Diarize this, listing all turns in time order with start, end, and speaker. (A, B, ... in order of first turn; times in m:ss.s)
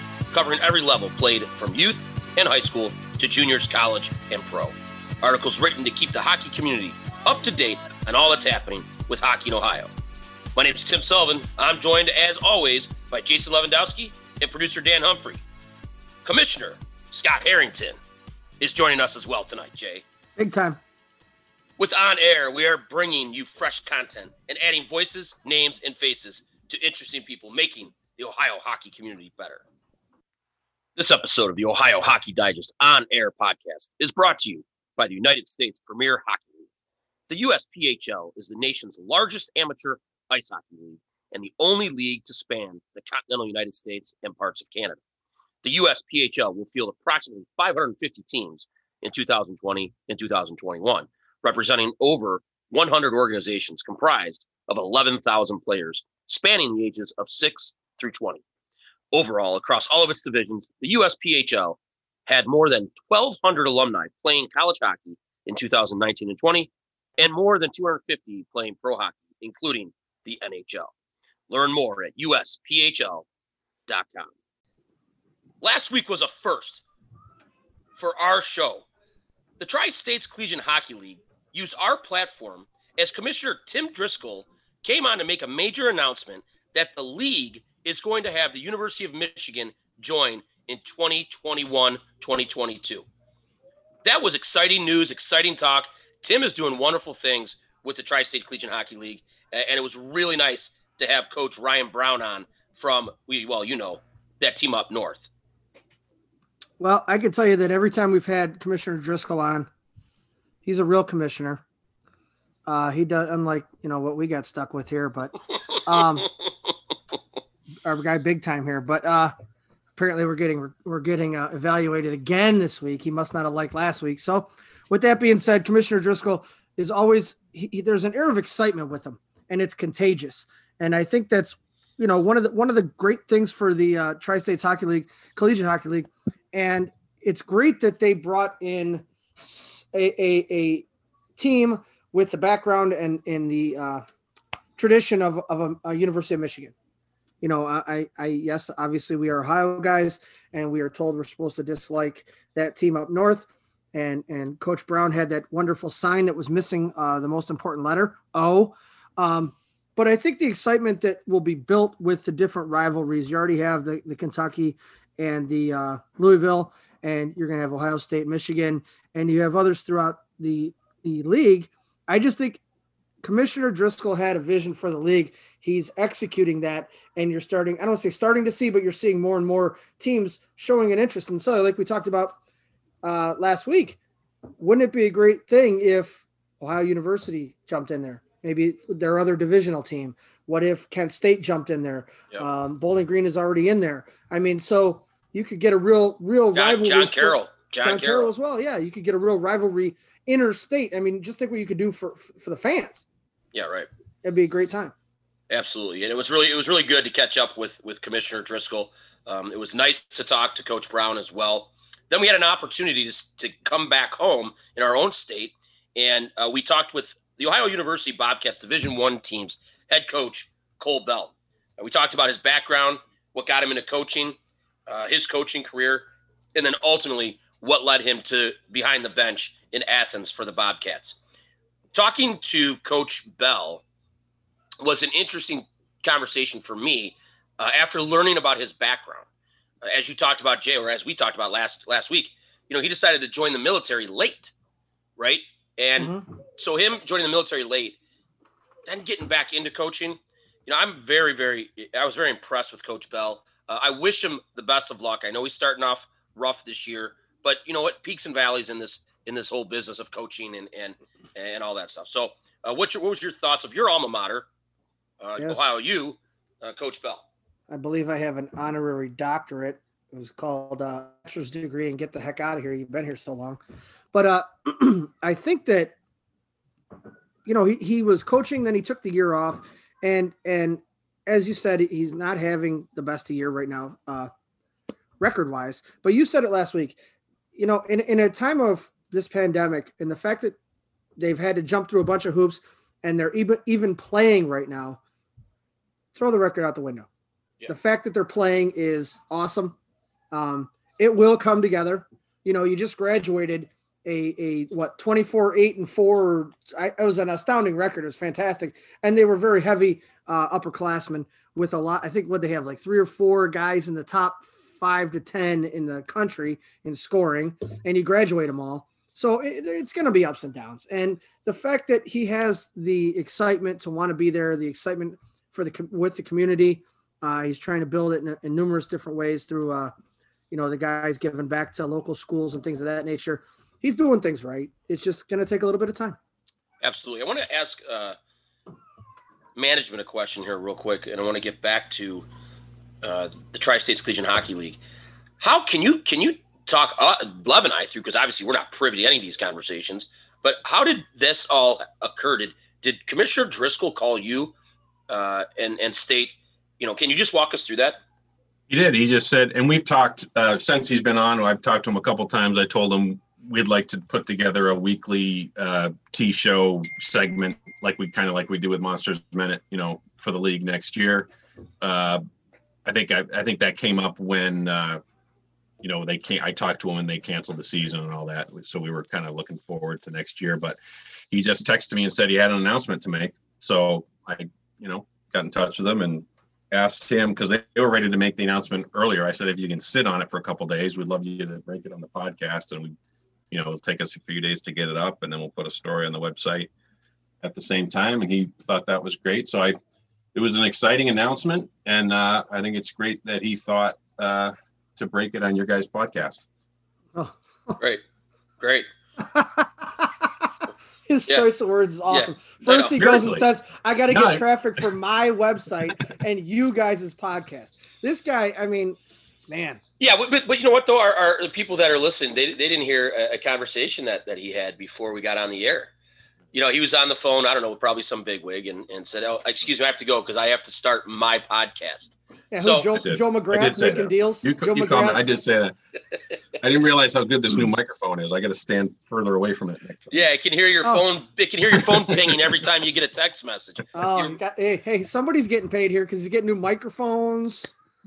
0:00.3-0:09.9 A
0:10.6-0:15.4 A
0:16.2-0:18.0 A
0:18.6-0:20.0 A
0:20.4-0:20.8 B
0:21.8-0:29.6 A
0:31.0-0:36.7 A
0:37.3-0:45.0 A
0:45.6-0:58.4 A
0:59.1-1:10.9 A
1:11.5-1:13.3 A
1:13.9-1:14.3 A
1:15.6-1:16.8 A
1:18.0-1:18.9 A
1:19.6-1:33.1 A
1:34.0-1:45.3 A
1:46.8-1:49.7 B
1:50.6-1:51.6 B
1:52.7-1:56.3 B
1:57.8-1:59.3 B
2:00.0-2:24.1 B
2:24.8-2:26.7 B
2:27.4-2:52.6 B
2:53.2-3:02.4 B
3:03.0-3:04.0 B
3:04.6-3:23.0 B
3:16.5-3:18.3 A
3:23.5-3:23.9 A
3:24.2-3:24.9 B
3:25.5-3:51.2 A
3:51.9-3:53.8 A
3:54.8-3:59.3 A
3:59.8-4:04.5 A
4:05.2-4:08.0 A
4:06.0-4:06.2 B
4:08.9-4:24.5 A
4:25.2-4:27.3 A
4:25.4-4:25.6 B
4:27.7-4:33.6 B
4:34.1-4:36.0 B
4:37.5-4:44.3 B
4:45.2-4:47.0 B
4:47.6-4:50.6 B
4:51.2-4:55.0 B
4:56.1-4:57.1 B
4:57.7-4:59.8 B
5:00.3-5:29.9 B
5:30.5-5:36.2 B
5:36.8-5:38.2 A
5:39.6-5:42.3 A
5:43.0-5:44.8 A
5:45.4-5:54.5 A
5:55.1-5:58.0 A
5:58.7-6:11.3 C
6:11.8-6:12.2 C
6:12.8-6:15.0 C
6:15.8-6:20.8 C
6:21.3-6:33.0 C
6:33.5-6:36.7 C
6:37.4-6:39.8 C
6:40.4-6:46.4 C
6:47.2-6:47.8 B
6:48.6-6:48.9 A
6:49.2-6:59.8 B
6:52.1-6:52.9 A
6:53.0-6:53.5 C
6:54.1-6:54.9 C
7:00.0-7:05.9 A
7:06.5-7:13.0 A
7:12.5-7:15.4 B
7:13.0-7:15.8 C
7:16.6-7:20.2 C
7:20.1-7:24.4 A
7:23.9-7:27.7 B